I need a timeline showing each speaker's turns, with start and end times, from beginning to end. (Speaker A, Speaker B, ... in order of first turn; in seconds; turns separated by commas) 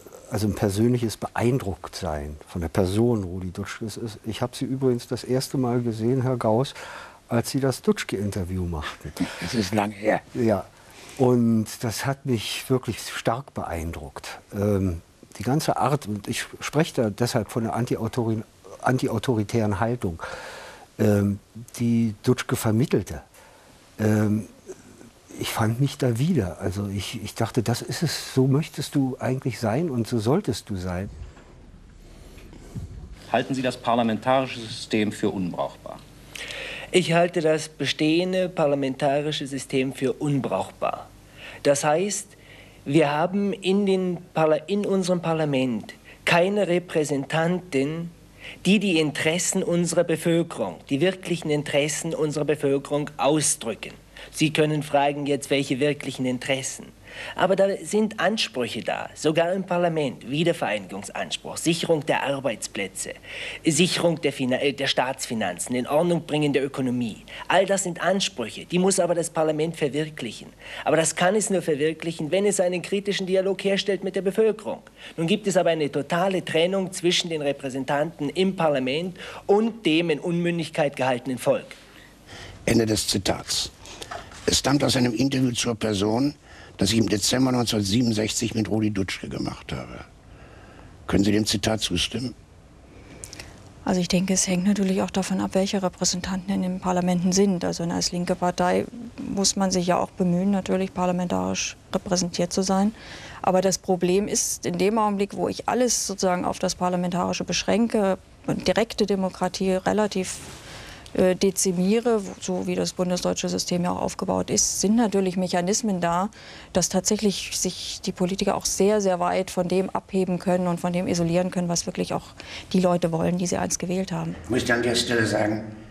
Speaker A: 0.3-6.8, Speaker A: 7.3-9.3, Speaker B: 9.4-10.2, Speaker A: 10.3-10.7, Speaker A: 11.2-20.3, Speaker A: 21.0-23.2, Speaker A: 24.0-24.5, Speaker A: 25.3-31.1, Speaker C: 33.3-36.0, Speaker D: 36.9-41.1, Speaker D: 41.6-48.1, Speaker D: 48.6-81.8, Speaker B: 82.7-83.7, Speaker B: 84.5-90.1, Speaker B: 91.1-92.3, Speaker E: 93.8-110.6, Speaker E: 111.1-124.4, Speaker B: 124.5-125.7